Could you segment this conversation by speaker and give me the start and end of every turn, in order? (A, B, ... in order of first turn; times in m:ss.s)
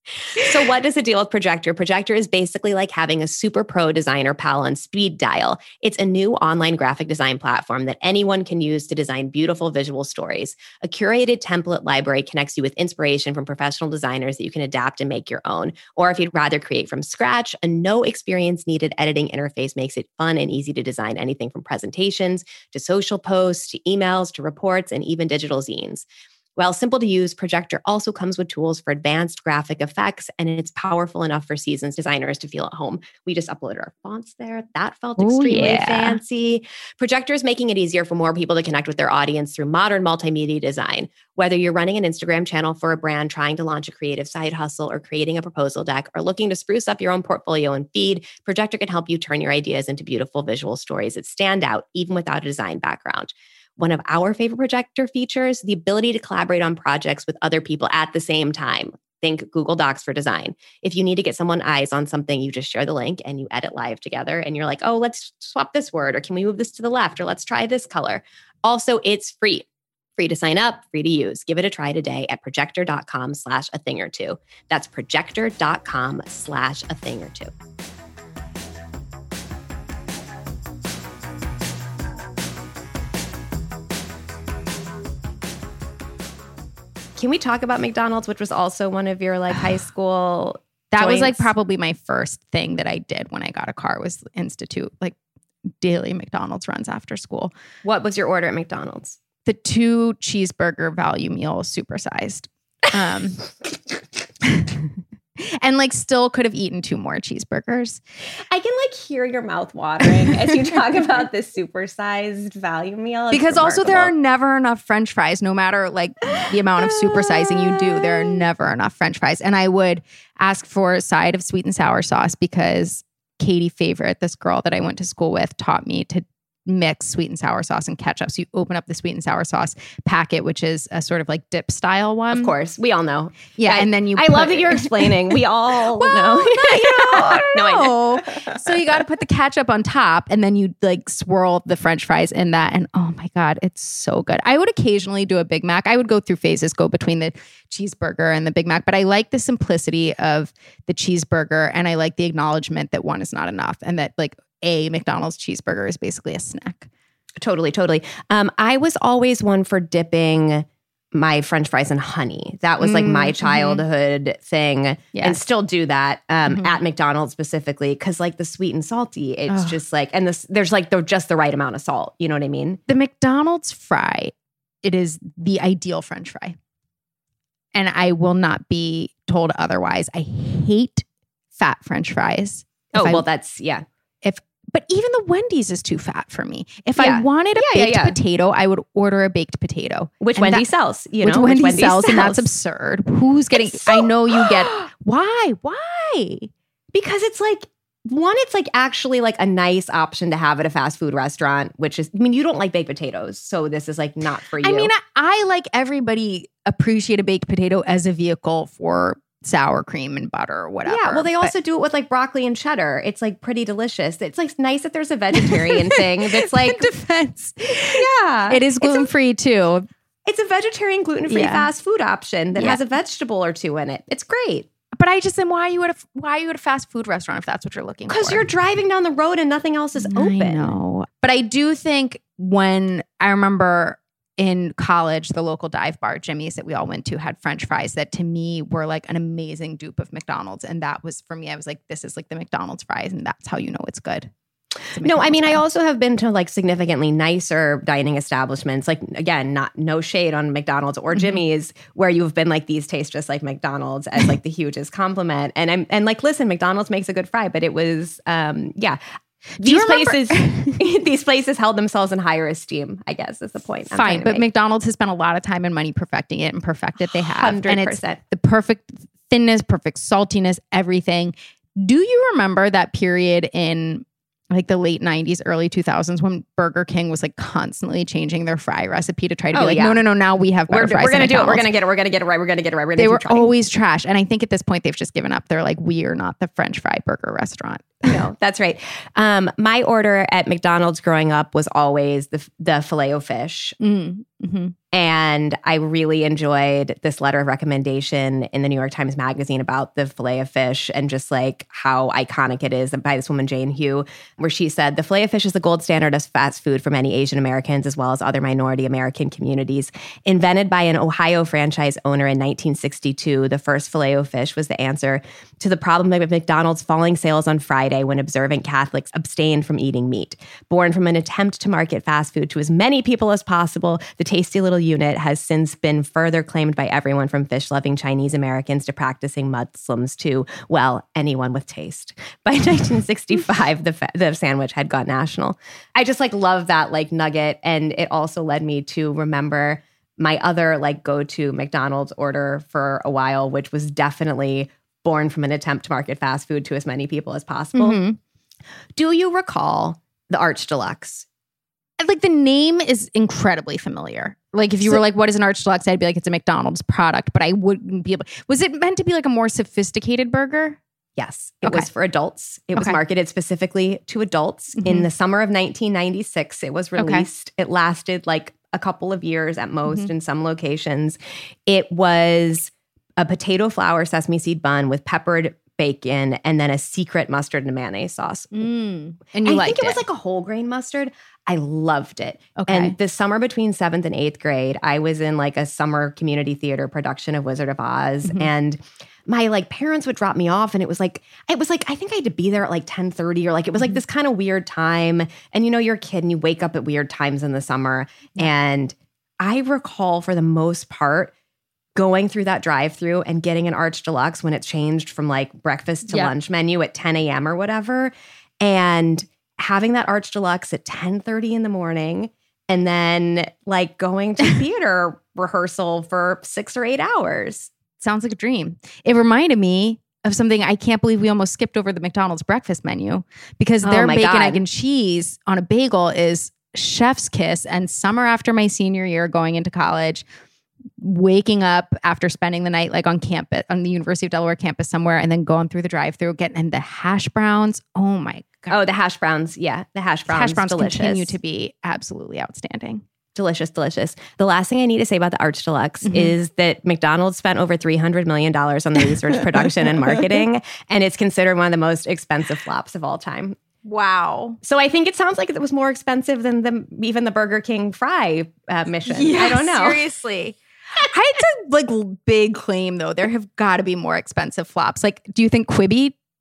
0:00.4-0:26.1 A
0:26.6-1:09.7 A
0:35.2-0:36.2 B
1:10.2-1:17.5 A
1:27.2-1:31.5 A
1:30.9-1:35.2 B
1:35.8-1:37.5 B
1:37.8-1:39.2 A
1:39.5-1:43.5 B
1:45.4-1:48.0 B
1:48.5-1:54.1 A
1:53.3-2:12.5 B
1:56.4-1:58.4 A
2:12.3-2:18.8 A
2:13.6-2:15.4 B
2:16.0-2:36.9 B
2:37.4-2:52.8 A
2:42.8-2:43.8 B
2:45.1-2:45.4 B
2:46.5-2:46.8 B
2:49.5-2:49.8 B
2:52.9-2:54.3 B
2:54.8-2:56.6 B
2:57.7-3:01.0 B
3:01.6-3:03.2 B
3:02.9-3:03.8 A
3:04.2-3:10.7 B
3:07.0-3:08.2 A
3:10.2-3:12.5 A
3:11.2-3:16.5 B
3:13.5-3:14.9 A
3:16.9-3:24.9 A
3:24.6-3:31.5 B
3:30.9-3:36.9 A
3:35.3-3:39.9 B
3:37.7-3:39.1 A
3:40.2-3:44.7 A
3:41.3-3:41.7 B
3:42.5-3:42.8 B
3:45.0-3:48.5 B
3:48.1-3:50.7 A
3:50.0-4:04.3 B
4:04.9-4:05.6 B
4:05.0-4:19.0 A
4:11.2-4:11.4 B
4:19.6-4:24.5 A
4:19.6-4:20.8 B
4:23.9-4:41.7 B
4:27.0-4:28.2 A
4:39.5-4:40.0 A
4:40.7-4:43.5 A
4:43.0-4:48.2 B
4:48.1-4:53.8 A
4:53.8-4:54.8 B
4:54.9-5:48.0 A
5:47.8-5:48.2 B
5:49.0-5:51.3 A
5:52.0-6:00.8 B
6:01.2-6:18.7 A
6:01.6-6:01.9 B
6:04.8-6:05.1 B
6:07.0-6:07.3 B
6:18.5-6:20.0 B
6:19.4-6:41.3 A
6:22.6-6:23.0 B
6:42.0-6:57.7 A
6:46.1-6:46.3 B
6:58.0-7:10.2 B
7:03.8-7:04.6 A
7:11.0-7:18.8 B
7:18.7-7:21.4 A
7:20.3-7:23.0 B
7:23.4-7:33.6 A
7:26.0-7:26.3 B
7:33.8-7:34.6 B
7:34.6-7:40.0 A
7:39.1-7:46.2 B